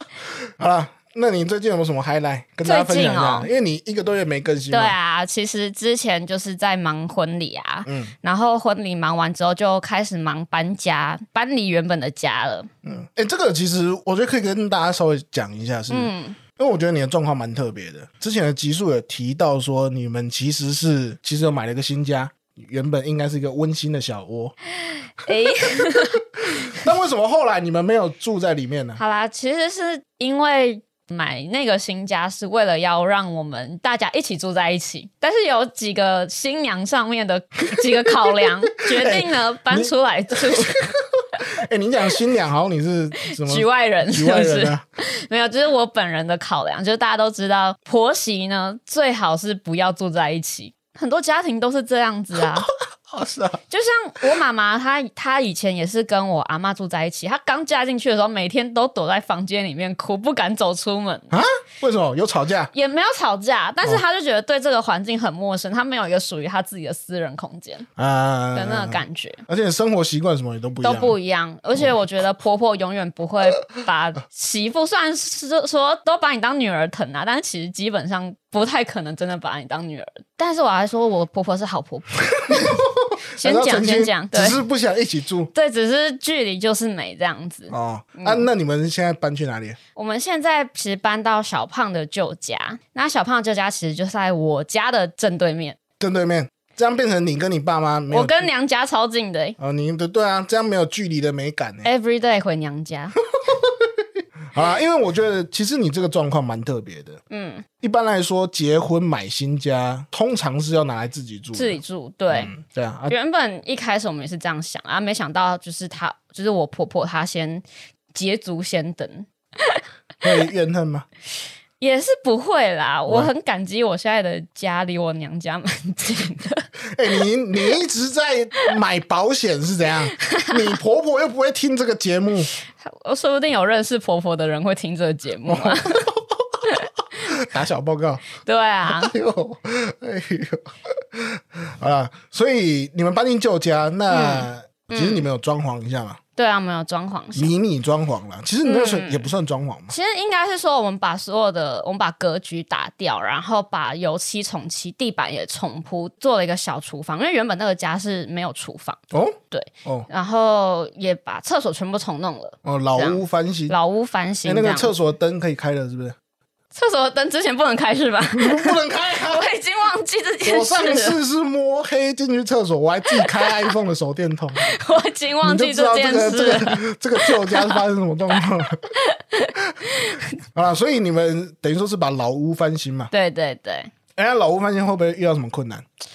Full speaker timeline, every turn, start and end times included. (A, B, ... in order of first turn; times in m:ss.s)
0:00.6-0:04.9 A
0:02.6-0:03.5 B
0:04.7-0:12.7 B
0:07.8-0:08.1 A
0:12.8-0:24.5 A
0:15.9-0:16.4 B
0:24.8-0:26.7 B
0:25.3-0:29.0 A
0:29.0-0:40.8 B
0:38.9-0:44.8 A
0:43.3-0:52.7 B
0:52.4-0:53.6 A
0:53.7-1:01.4 B
1:01.3-1:02.7 A
1:02.7-1:07.9 B
1:08.0-1:11.2 A
1:08.5-1:09.4 B
1:10.8-1:24.6 B
1:22.5-1:25.5 A
1:25.5-1:28.5 B
1:27.7-1:29.8 A
1:29.9-1:35.8 B
1:36.0-1:38.5 A
1:38.1-1:39.6 B
1:39.6-1:41.9 A
1:41.8-1:43.2 B
1:43.5-1:43.9 A
1:44.5-1:47.2 A
1:47.3-1:47.6 B
1:47.8-1:51.8 A
1:51.5-1:52.5 B
1:52.3-1:53.1 A
1:53.1-1:59.8 B
2:00.2-2:01.0 A
2:01.8-2:06.6 B
2:06.9-2:12.5 A
2:10.2-2:10.6 B
2:12.7-2:16.0 B
2:15.5-2:16.6 A
2:17.2-2:18.2 A
2:18.4-2:19.1 B
2:18.9-2:26.2 A
2:24.1-2:25.2 B
2:26.4-2:27.5 B
2:27.3-2:29.9 A
2:28.6-2:29.3 B
2:29.9-2:39.0 B
2:39.1-2:40.1 A
2:39.5-2:44.9 B
2:42.6-2:43.8 A
2:44.4-2:46.2 A
2:46.7-2:51.2 B
2:48.3-2:49.5 A
2:50.4-2:54.7 A
2:53.2-2:53.7 B
2:54.6-2:57.8 B
2:55.4-2:58.8 A
2:59.0-3:00.3 B
3:00.5-3:03.1 A
3:03.1-3:03.9 B
3:04.2-3:05.8 A